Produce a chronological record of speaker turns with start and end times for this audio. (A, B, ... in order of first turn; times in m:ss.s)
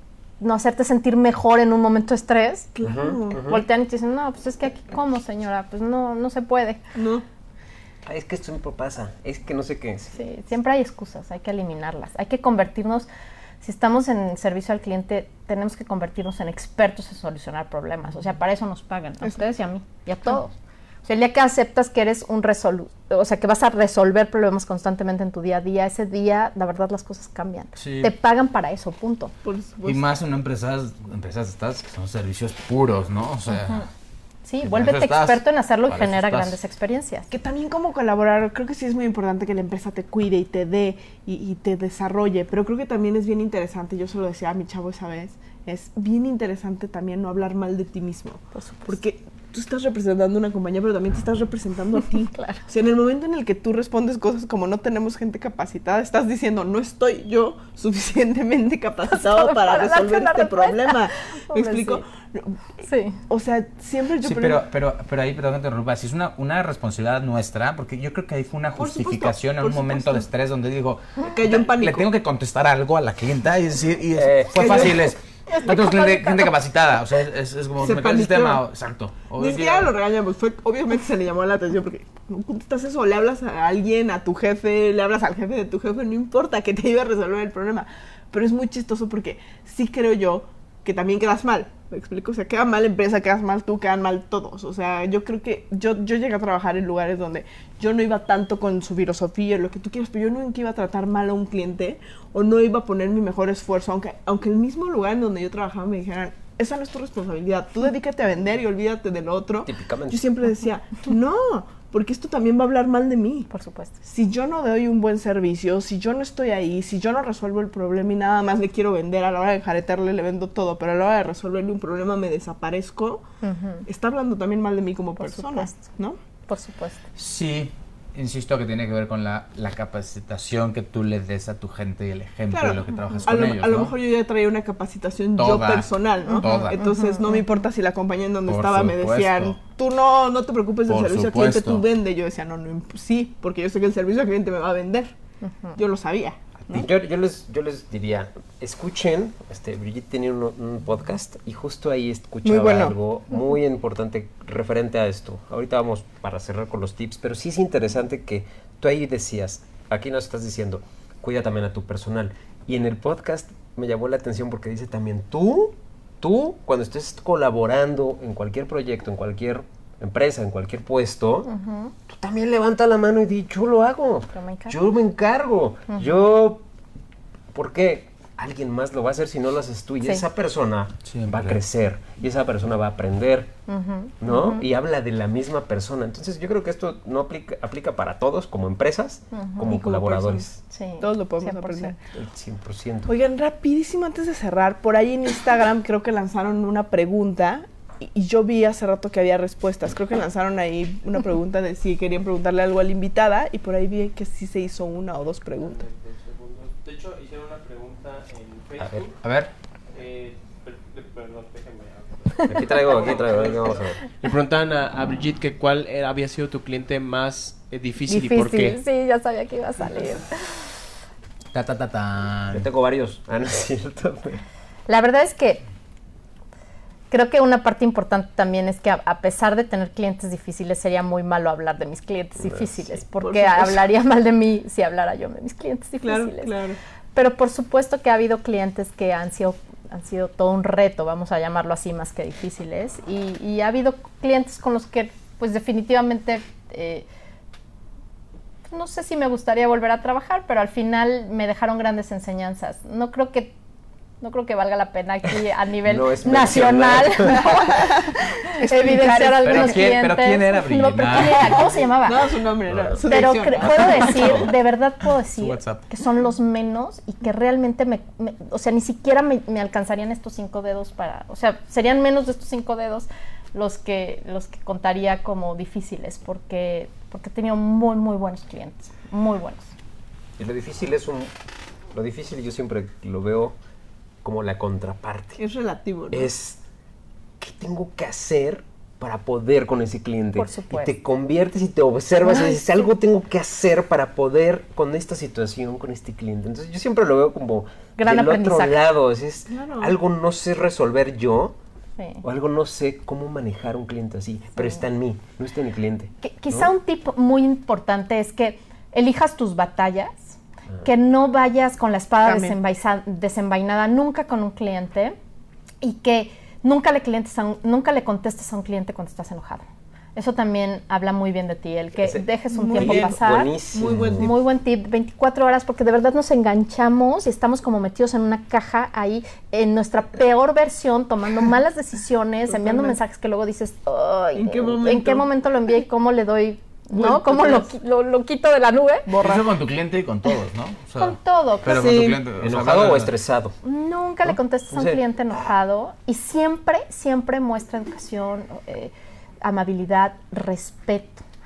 0:00.4-0:02.7 A
0:02.8-0:03.5 B
0:02.8-0:03.6 C
0:03.4-0:06.8 A
0:07.0-0:07.2 B
0:08.0-0:10.2 C
0:10.1-0:13.1 A
0:13.6-0:20.5 A
0:21.1-0:29.3 A
0:27.8-0:28.1 D
0:29.4-0:30.1 B
0:29.9-0:33.9 D
0:33.5-0:33.9 A
0:34.4-0:37.3 A
0:34.6-0:36.6 D
0:37.3-1:02.6 B
0:48.5-0:49.0 A
0:52.3-0:52.6 A
0:59.1-1:02.0 A
1:02.8-1:03.2 A
1:03.3-1:04.6 B
1:04.2-1:19.9 D
1:08.8-1:10.3 B
1:11.2-1:12.1 B
1:14.1-1:15.0 C
1:14.6-1:14.9 B
1:15.5-1:16.5 A
1:17.8-1:18.6 B
1:19.4-1:53.5 B
1:49.6-1:50.2 C
1:53.5-1:54.0 A
1:54.0-2:03.2 B
2:03.4-2:03.8 A
2:03.9-2:06.2 B
2:05.2-2:05.9 A
2:06.5-2:07.0 A
2:07.2-2:13.9 D
2:12.5-2:25.1 B
2:15.4-2:16.8 D
2:16.3-2:17.4 A
2:18.5-2:19.6 D
2:20.9-2:21.8 D
2:25.8-2:26.9 B
2:26.7-2:51.5 C
2:32.4-2:32.9 B
2:51.5-2:51.9 A
2:52.1-2:56.6 C
2:54.4-2:54.8 A
2:57.5-3:03.6 C
3:01.0-3:01.6 D
3:03.7-3:04.6 A
3:04.2-3:10.6 C
3:09.3-3:09.8 A
3:09.6-3:12.0 B
3:10.7-3:12.0 A
3:12.1-3:13.1 C
3:13.1-3:25.8 B
3:25.6-3:29.2 E
3:28.8-3:29.0 C
3:29.2-3:29.5 D
3:29.9-3:38.8 E
3:32.5-3:34.0 C
3:38.1-3:40.7 A
3:41.5-3:42.6 D
3:42.5-3:44.4 C
3:44.9-3:45.6 A
3:47.1-3:56.6 A
3:52.4-3:53.0 C
3:53.2-3:53.8 B
3:56.1-3:56.8 B
3:57.2-4:07.1 A
4:08.7-4:13.6 A
4:14.2-4:17.8 A
4:15.9-4:17.8 C
4:17.5-4:19.9 B
4:18.4-4:22.3 A
4:19.4-4:21.7 D
4:21.2-4:24.4 B
4:22.7-4:23.1 C
4:23.1-4:39.7 A
4:23.6-4:24.5 C
4:25.4-4:25.8 D
4:40.4-4:41.3 C
4:41.9-4:43.6 C
4:44.2-4:45.4 C
4:45.4-4:46.3 B
4:46.1-4:46.6 C
4:47.4-5:01.6 C
4:50.4-4:50.9 A
4:52.3-4:52.7 A
4:58.0-4:58.8 A
4:59.5-4:59.9 B
5:02.2-5:06.7 C
5:06.2-5:15.2 A
5:12.2-5:12.6 B
5:15.8-5:39.1 A
5:22.0-5:24.3 C
5:22.5-5:23.2 B
5:23.8-5:24.3 B
5:32.5-5:33.0 B
5:34.4-5:35.3 B
5:36.9-5:37.7 B
5:39.1-5:39.4 B
5:39.2-5:43.1 D
5:41.0-5:42.0 A
5:41.7-5:42.2 B
5:42.4-5:43.6 C
5:43.6-5:51.2 A
5:44.3-5:45.4 C